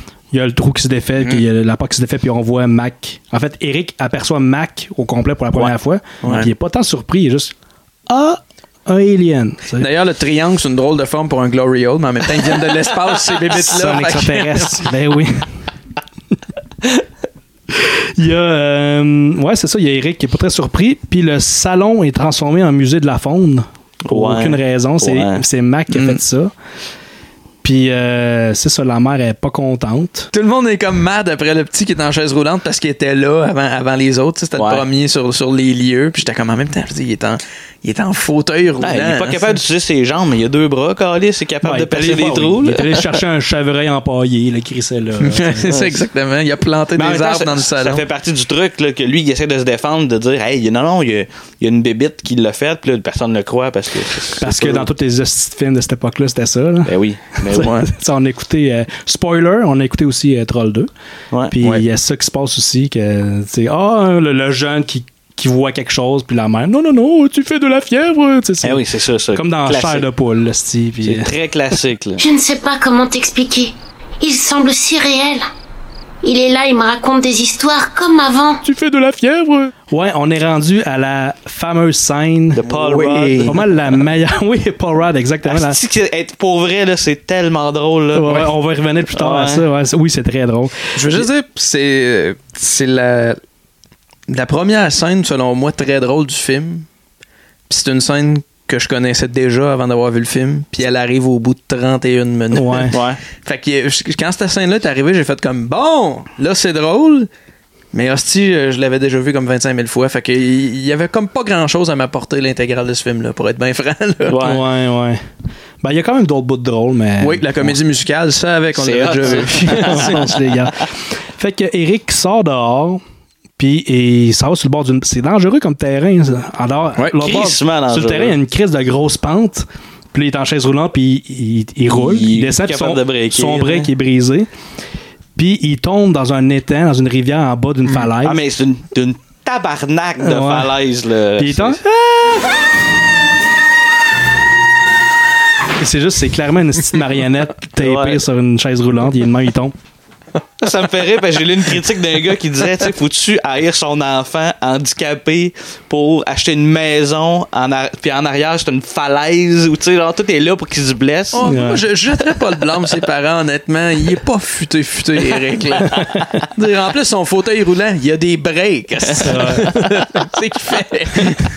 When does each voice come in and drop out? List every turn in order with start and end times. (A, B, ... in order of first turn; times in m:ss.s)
0:00.3-0:07.5 A
0:06.2-0:06.5 B
0:08.1-0:09.9 A
0:09.8-0:14.6 B
0:13.5-0:15.5 A
0:17.7-0:26.5 A
0:24.0-0:25.4 C
0:25.9-0:26.2 B
0:27.6-0:30.3 A
0:30.3-0:39.5 B
0:34.6-0:34.8 C
0:38.8-0:43.1 C
0:41.6-0:45.8 A
0:45.2-0:48.0 B
0:47.0-0:54.9 C
0:54.4-0:56.9 A
0:56.8-0:57.7 C
0:57.5-1:00.9 A
0:57.5-0:57.8 B
1:01.5-1:08.8 A
1:08.6-1:10.0 C
1:09.3-1:11.3 A
1:11.0-1:12.2 C
1:12.2-1:15.4 D
1:16.2-1:18.6 D
1:18.6-1:22.6 A
1:22.6-1:23.6 C
1:22.6-1:23.6 B
1:23.4-1:25.8 A
1:25.4-1:28.5 C
1:28.1-1:31.2 A
1:29.1-1:29.6 C
1:30.9-1:33.4 B
1:34.3-1:36.9 B
1:37.7-1:47.3 B
1:42.5-1:42.9 A
1:42.9-1:43.2 C
1:47.9-1:54.4 B
1:54.3-1:54.6 C
1:54.4-1:55.2 A
1:55.8-1:57.8 A
1:57.2-2:00.1 B
1:58.7-2:00.2 C
1:59.7-2:00.9 A
2:01.4-2:03.0 A
2:03.6-2:14.5 A
2:07.2-2:08.4 C
2:11.9-2:13.9 C
2:15.4-2:18.4 A
2:18.2-2:21.8 C
2:20.2-2:20.7 A
2:21.4-2:22.4 A
2:25.8-2:29.7 A
2:27.8-2:28.2 C
2:30.6-2:41.4 C
2:41.3-2:46.0 B
2:41.4-2:41.8 A
2:46.5-2:51.4 B
2:49.2-2:49.8 C
2:49.2-2:49.8 A